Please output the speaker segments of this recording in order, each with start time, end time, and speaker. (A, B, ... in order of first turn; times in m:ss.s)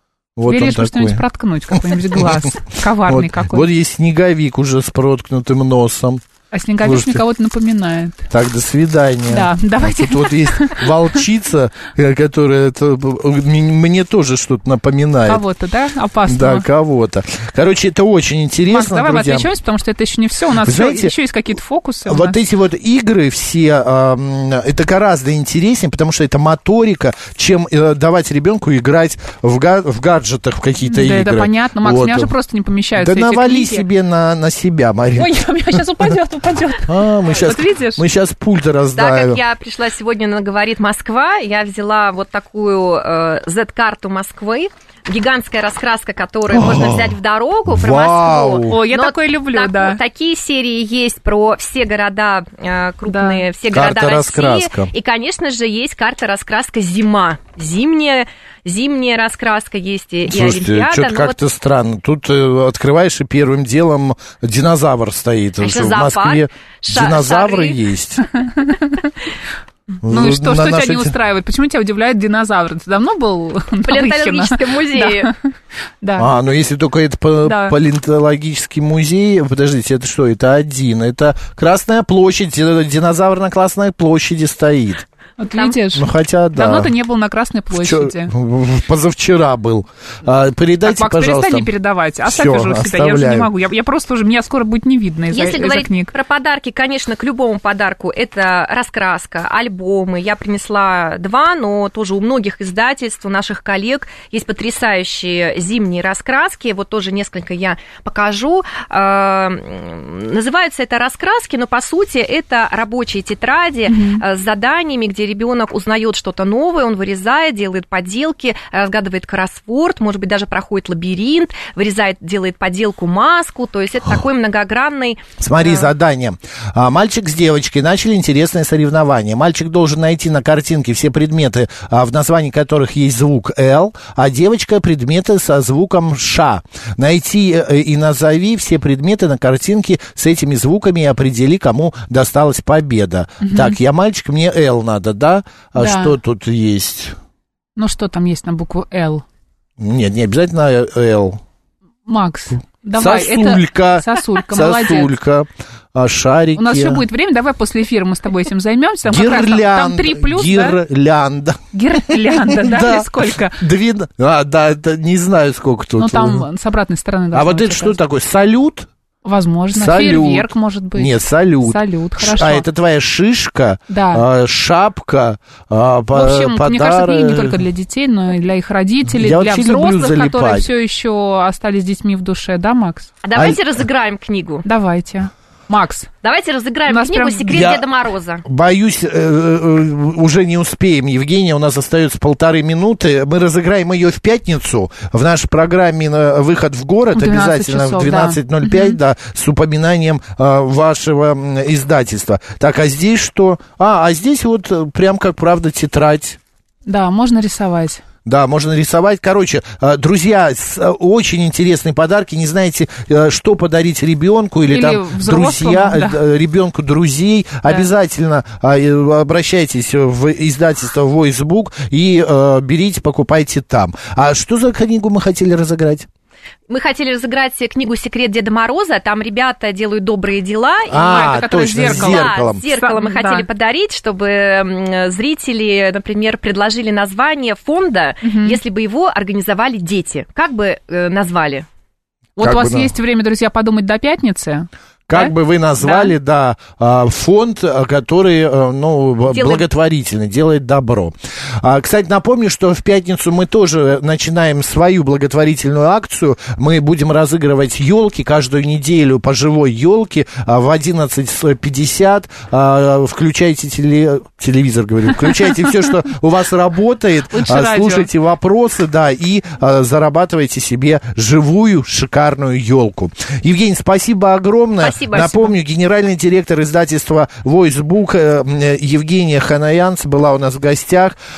0:00.4-0:01.2 A
0:00.5-0:03.7 B
0:01.7-0:02.5 A
0:03.0-0:06.2 A
0:06.5-0:08.3 B
0:06.8-0:07.2 A
0:08.3-0:15.4 A
0:09.3-0:11.0 B
0:15.3-0:16.7 B
0:16.3-0:19.5 A
0:18.7-0:22.4 B
0:20.6-0:21.1 A
0:22.0-0:32.3 A
0:30.9-0:33.8 B
0:33.0-0:35.8 A
0:35.2-0:38.0 B
0:36.9-0:39.4 A
0:38.9-1:01.4 C
0:46.5-0:48.8 A
0:48.7-0:50.0 B
0:53.1-0:53.5 B
0:53.7-0:54.9 A
1:00.3-1:08.3 A
1:05.6-1:07.8 C
1:08.3-1:09.1 B
1:10.0-1:11.1 A
1:10.0-1:16.3 B
1:13.8-1:15.3 C
1:16.2-1:25.0 A
1:17.4-1:17.8 B
1:25.4-1:28.3 B
1:25.9-1:26.9 A
1:27.7-1:31.7 A
1:30.8-1:36.1 B
1:32.2-1:33.5 A
1:35.3-2:05.8 C
1:53.9-1:54.2 B
2:05.4-2:27.2 A
2:23.4-2:23.8 B
2:25.8-2:26.2 B
2:27.8-2:29.2 B
2:29.8-2:31.4 A
2:32.1-2:35.1 B
2:33.0-2:37.0 A
2:36.6-2:40.8 B
2:39.1-2:46.5 A
2:41.7-2:43.6 B
2:46.0-2:48.0 B
2:47.3-2:48.9 A
2:49.2-2:52.6 B
2:49.7-2:57.6 A
2:53.9-2:54.2 B
2:56.1-3:03.1 B
2:59.1-3:00.7 A
3:03.2-3:04.6 C
3:03.4-3:03.6 A
3:04.6-3:06.1 B
3:06.2-3:08.4 C
3:06.9-3:07.5 B
3:07.5-3:07.8 A
3:08.4-3:26.4 A
3:17.1-3:19.0 B
3:26.9-3:28.0 B
3:28.2-3:46.1 A
3:34.7-3:36.2 B
3:46.7-4:01.7 C
3:50.9-3:52.6 A
3:51.1-3:53.5 B
3:58.2-3:58.6 B
4:02.4-4:02.9 A
4:02.4-4:06.2 B
4:05.1-4:41.2 A
4:09.3-4:09.6 C
4:27.3-4:28.1 B
4:34.8-4:35.5 C